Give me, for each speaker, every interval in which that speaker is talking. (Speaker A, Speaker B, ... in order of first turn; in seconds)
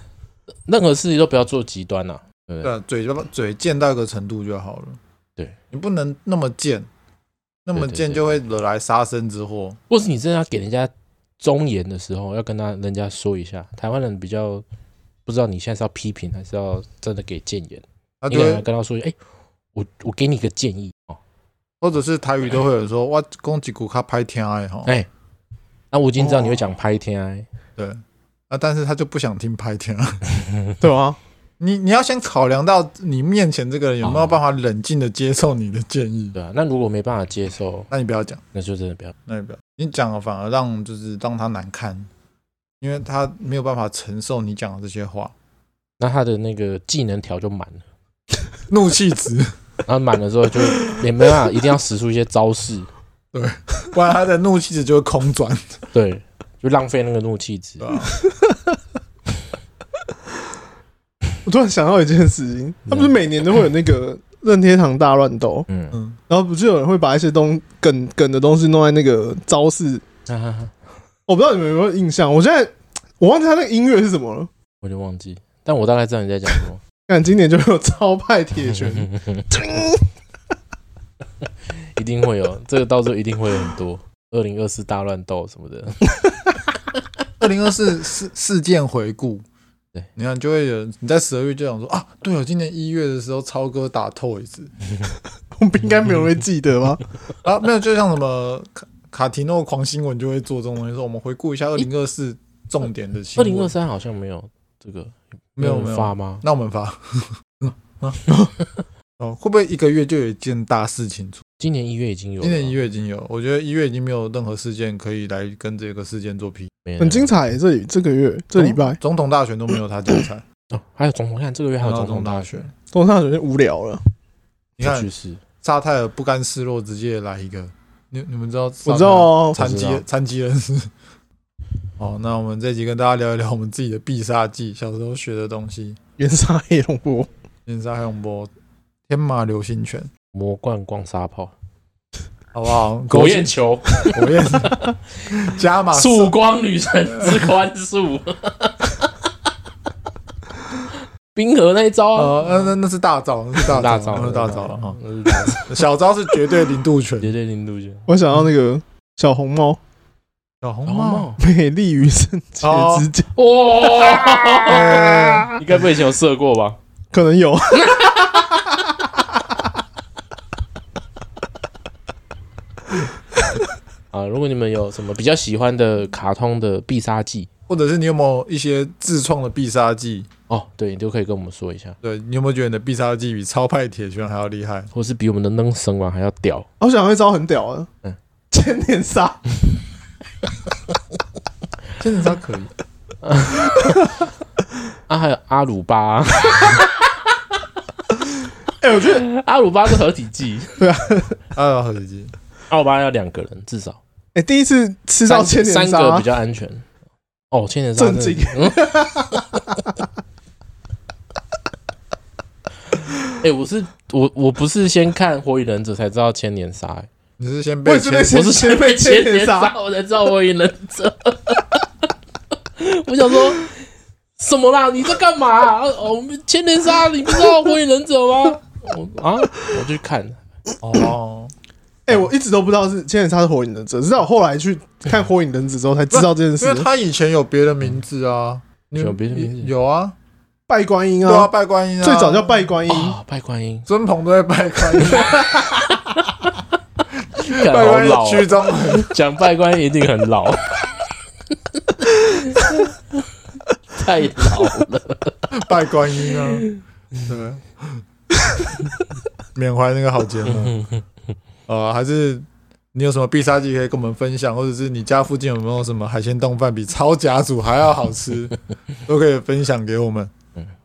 Speaker A: 0.7-2.7, 7.7-8.3, 9.9-14.6, 15.2-19.1, 19.7-21.2, 25.9-27.5, 34.0-34.4, 36.3-37.9, 38.5-39.1, 46.0-47.8, 49.9-52.9, 55.9-58.0, 62.9-63.1, 65.7-66.0, 70.3-70.7, 74.8-76.8, 78.6-79.6, 82.0-86.1, 103.3-106.4, 111.6-112.7, 116.8-117.3, 120.7-122.7, 124.8-125.4, 129.6-130.0, 140.3-141.5, 143.1-144.9, 145.9-149.1, 150.9-152.7, 153.6-155.7, 157.2-158.1, 160.8-161.4, 163.3-166.8, 167.8-168.4, 174.1-177.5, 180.5-182.0, 184.9-186.7, 193.2-193.8, 195.1-197.0, 199.0-200.8, 202.7-204.0, 205.2-206.9, 207.5-209.7, 213.3-217.1, 218.3-221.8, 222.8-223.8, 224.4-230.4, 238.9-239.7, 242.9-243.9, 244.9-246.6, 247.4-250.9, 252.2-252.9, 253.9-255.4, 260.6-261.0
Speaker B: 2.6-5.0, 5.7-6.9, 7.7-9.8, 18.2-18.6, 21.8-24.9, 27.8-30.2, 31.6-36.4, 37.9-38.4, 39.3-42.1, 42.8-45.3, 48.7-49.5, 53.3-55.8, 57.8-58.1, 87.4-89.4, 90.2-94.7, 97.4-103.7, 105.6-108.3, 109.2-111.4, 112.4-116.7, 118.6-120.4, 121.8-122.7, 124.8-125.1, 125.6-130.9, 132.0-136.0, 137.7-138.5, 139.1-140.1, 142.5-146.3, 147.2-147.5, 152.1-157.3, 160.6-161.3, 162.6-163.1, 164.6-165.6, 177.7-180.3, 182.0-184.9, 192.0-192.7, 201.5-202.3, 217.4-218.4, 230.8-231.5, 236.1-240.1, 241.2-242.7, 243.9-245.5, 247.4-249.1, 255.5-256.7, 257.2-258.0, 259.5-260.8, 261.7-270.3
Speaker C: 26.2-26.6, 30.8-31.2, 58.3-58.7, 61.4-65.7, 66.3-70.0, 71.3-74.5, 77.1-80.1, 95.5-97.0, 117.0-119.0, 122.9-124.0, 128.8-129.7, 136.2-137.3, 158.1-159.8, 161.4-163.3, 167.1-169.6, 186.8-187.9, 188.5-189.4, 198.8-199.2, 200.8-201.4, 204.3-206.3, 207.9-210.0, 217.8-219.7, 232.1-236.9, 240.7-243.2